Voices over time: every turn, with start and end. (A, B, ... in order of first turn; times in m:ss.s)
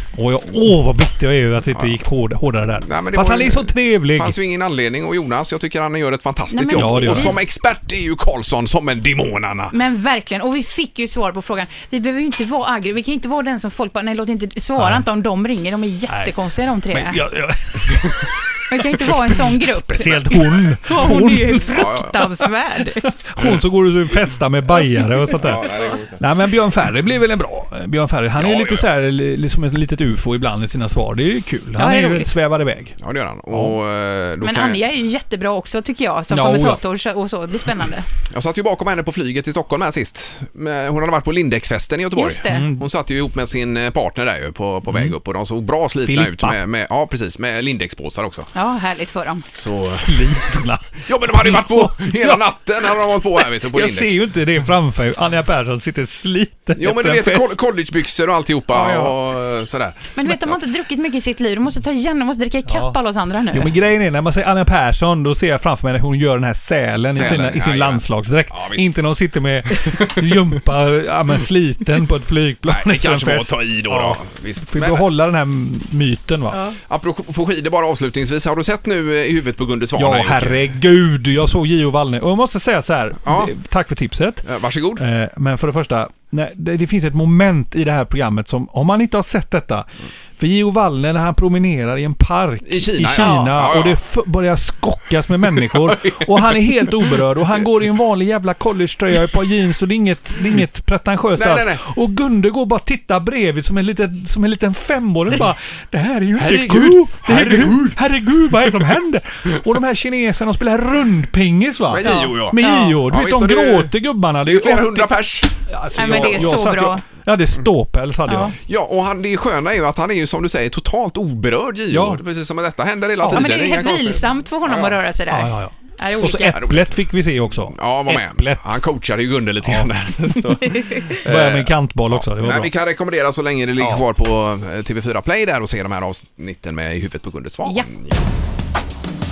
0:00.2-0:04.4 A
0:02.8-0:09.7 B
0:06.5-0:07.4 C
0:06.8-0:07.4 A
0:09.7-0:17.2 C
0:14.8-0:15.0 A
0:16.9-0:18.3 A
0:18.7-0:23.0 C
0:19.0-0:21.7 A
0:21.7-0:22.2 B
0:23.2-0:25.7 A
0:25.3-0:26.2 B
0:26.2-0:33.0 A
0:28.4-0:28.8 B
0:31.8-0:32.3 C
0:33.0-0:34.8 B
0:34.4-0:38.1 C
0:36.3-0:36.8 A
0:38.3-0:48.5 B
0:42.2-0:42.6 C
0:42.5-0:42.8 A
0:46.0-0:46.6 A
0:48.6-0:49.5 C
0:49.5-0:50.4 B
0:49.8-0:52.4 A
0:51.1-0:54.2 B
0:53.7-0:57.6 A
0:56.8-1:00.6 B
0:58.7-0:59.1 A
1:00.2-1:03.7 C
1:02.7-1:03.0 A
1:03.5-1:16.6 A
1:07.1-1:09.0 B
1:09.7-1:10.2 B
1:12.7-1:15.1 B
1:16.9-1:20.7 B
1:20.0-1:24.4 A
1:23.2-1:23.5 B
1:24.4-1:25.0 B
1:25.0-1:58.5 A
1:32.6-1:34.0 B
1:35.7-1:36.3 B
1:41.4-1:41.8 B
1:46.4-1:48.0 B
1:51.9-1:53.9 B
1:52.1-1:53.0 C
1:54.4-1:56.6 B
1:56.0-1:57.0 C
1:58.3-1:58.5 C
1:58.6-2:05.0 B
2:01.9-2:02.2 A
2:03.3-2:06.6 C
2:05.3-2:08.8 A
2:06.5-2:06.9 B
2:07.7-2:18.2 B
2:10.7-2:11.1 C
2:11.2-2:12.7 A